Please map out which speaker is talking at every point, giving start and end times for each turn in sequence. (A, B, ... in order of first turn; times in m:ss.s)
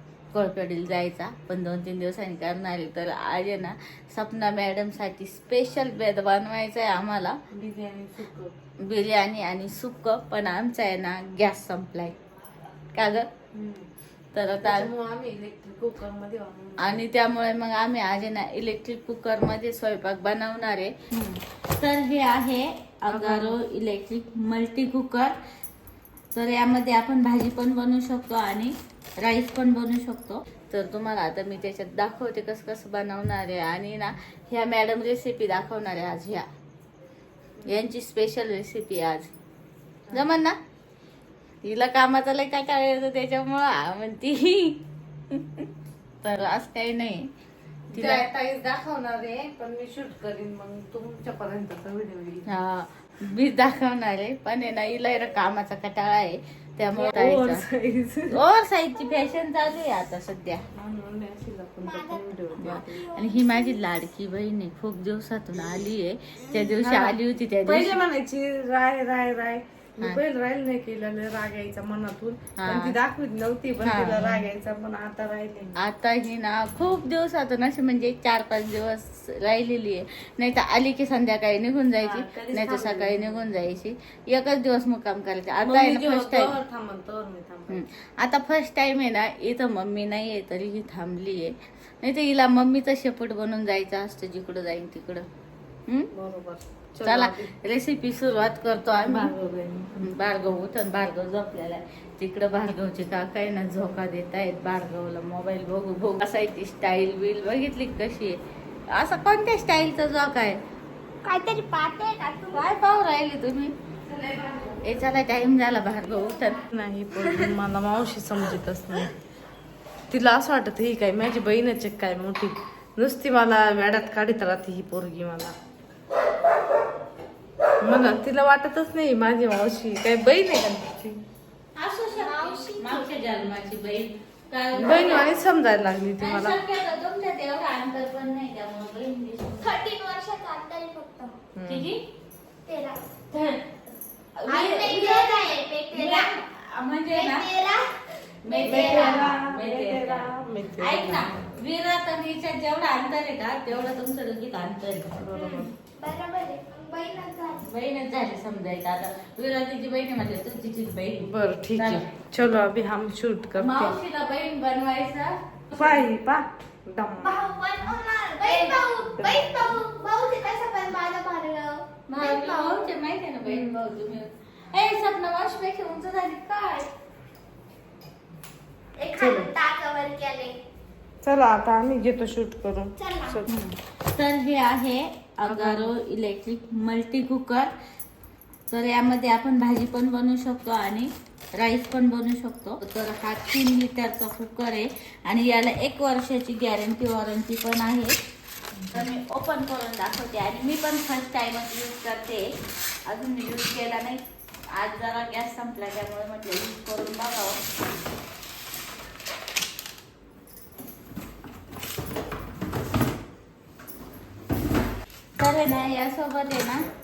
0:00.3-0:07.4 A
0:07.5-0:08.5 B
0:08.8-0:12.2 A
0:12.9-0:13.3 A
0:13.5-0:13.9 B
0:14.3-0:14.9 A
0:14.6-0:17.0 B
0:16.8-0:25.4 A
0:23.1-0:23.6 B
0:26.3-0:36.5 A
0:37.6-0:39.3 A
0:40.1-0:40.6 A
0:41.6-0:45.7 A
0:46.2-0:47.3 A
0:47.9-0:52.5 B
0:47.9-0:48.2 A
0:52.5-0:57.6 A
0:56.9-0:58.4 B
0:58.3-1:00.6 A
1:00.7-1:03.0 B
1:01.8-1:03.4 C
1:02.6-1:08.0 A
1:06.8-1:15.8 B
1:12.6-1:13.0 A
1:13.8-1:14.4 A
1:15.8-1:26.5 A
1:22.0-1:23.4 B
1:25.6-1:27.8 B
1:27.7-1:35.2 A
1:36.1-1:37.5 B
1:37.0-1:39.3 A
1:39.0-1:40.1 B
1:40.0-1:48.4 A
1:48.9-1:50.6 A
1:51.2-1:52.7 C
1:52.5-1:53.7 A
1:54.1-1:54.8 B
1:54.8-1:56.6 A
1:56.7-1:59.2 B
2:00.1-2:05.5 B
2:07.8-2:11.2 B
2:11.8-2:15.4 A
2:12.1-2:13.1 C
2:14.7-2:16.6 B
2:16.2-2:19.8 A
2:19.6-2:21.3 C
2:21.5-2:21.9 B
2:21.6-2:22.0 A
2:22.6-2:23.0 C
2:23.3-2:23.7 A
2:24.4-2:27.5 A
2:24.5-2:26.3 C
2:27.1-2:29.3 C
2:28.4-2:35.3 A
2:28.6-2:31.4 B
2:35.2-2:35.7 B
2:35.3-2:37.6 C
2:37.6-2:42.0 A
2:41.2-2:44.0 B
2:43.6-2:46.0 A
2:45.7-2:47.4 B
2:47.2-2:52.9 C
2:49.2-2:49.8 B
2:52.1-2:56.9 A
2:53.4-2:53.8 B
2:59.0-3:00.6 C
2:59.2-2:59.5 B
3:01.2-3:03.5 B
3:03.0-3:03.4 C
3:03.4-3:07.7 A
3:05.4-3:05.9 B
3:08.7-3:18.2 A
3:18.8-3:19.1 B
3:18.9-3:22.4 A
3:23.1-3:24.2 A
3:24.7-3:27.6 A
3:35.4-3:36.8 A